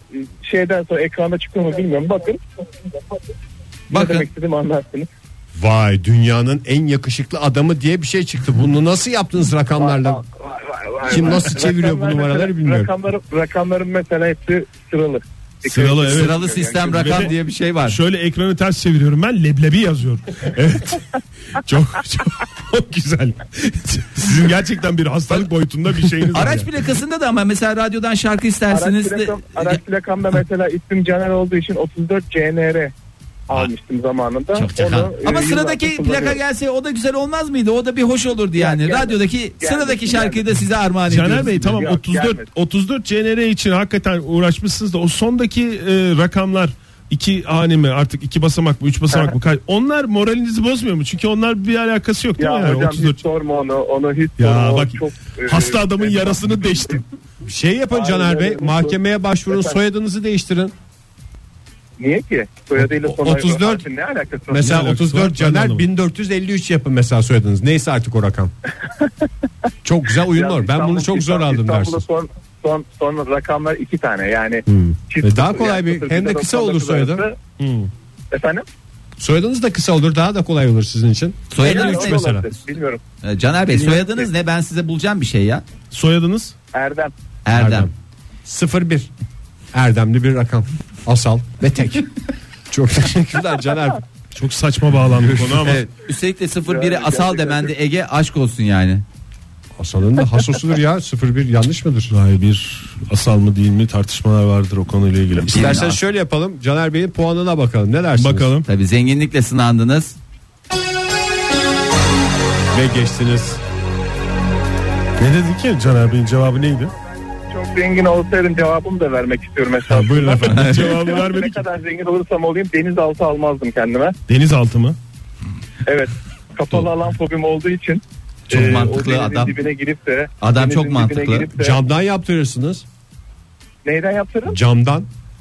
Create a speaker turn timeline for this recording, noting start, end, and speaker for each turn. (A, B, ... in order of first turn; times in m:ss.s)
0:00.1-0:02.4 A
0:03.9-0:04.3 B
0:03.9-0:05.1 A
0:05.5-0:10.2 C
0:09.8-0:17.3 A
0:11.0-0:12.9 C
0:15.6-0:16.4 D
0:16.0-0:18.0 B
0:16.9-0:17.3 D
0:17.8-0:21.0 D
0:21.6-0:26.7 D
0:26.3-0:29.8 B
0:28.7-0:32.9 A
0:33.5-0:36.4 A
0:34.5-0:41.6 B
0:38.6-0:40.4 A
0:41.1-0:53.2 D
0:41.6-0:42.5 A
0:52.4-0:57.0 A
0:54.4-0:57.0 D
0:57.4-1:00.7 C
0:57.9-0:59.8 A
1:02.0-1:04.8 A
1:02.8-1:03.8 C
1:04.5-1:08.5 C
1:04.6-1:05.8 D
1:09.8-1:12.0 C
1:10.3-1:17.4 A
1:14.7-1:17.2 C
1:17.6-1:17.9 D
1:18.3-1:18.6 A
1:19.2-1:22.4 C
1:21.5-1:22.2 B
1:21.6-1:23.0 A
1:23.2-1:25.6 B
1:23.7-1:24.3 A
1:25.9-1:26.5 D
1:26.7-1:27.1 A
1:27.4-1:27.9 B
1:27.5-1:27.9 C
1:28.4-1:29.1 C
1:29.7-1:32.1 C
1:32.7-1:34.0 C
1:34.3-1:35.8 D
1:35.2-1:35.6 C
1:35.6-1:39.0 B
1:36.6-1:37.7 A
1:39.8-1:42.1 C
1:42.1-1:45.7 D
1:45.5-1:48.5 C
1:45.5-1:46.0 B
1:48.2-1:48.6 D
1:48.6-1:50.2 B
1:52.7-1:53.6 C
1:55.2-1:56.9 D
1:57.5-2:04.2 A
2:00.0-2:00.5 C
2:00.0-2:01.6 D
2:00.5-2:00.8 B
2:04.3-2:05.0 D
2:05.8-2:11.8 A
2:08.5-2:09.6 B
2:10.4-2:11.5 B
2:11.6-2:12.8 C
2:13.8-2:14.6 A
2:14.5-2:15.1 C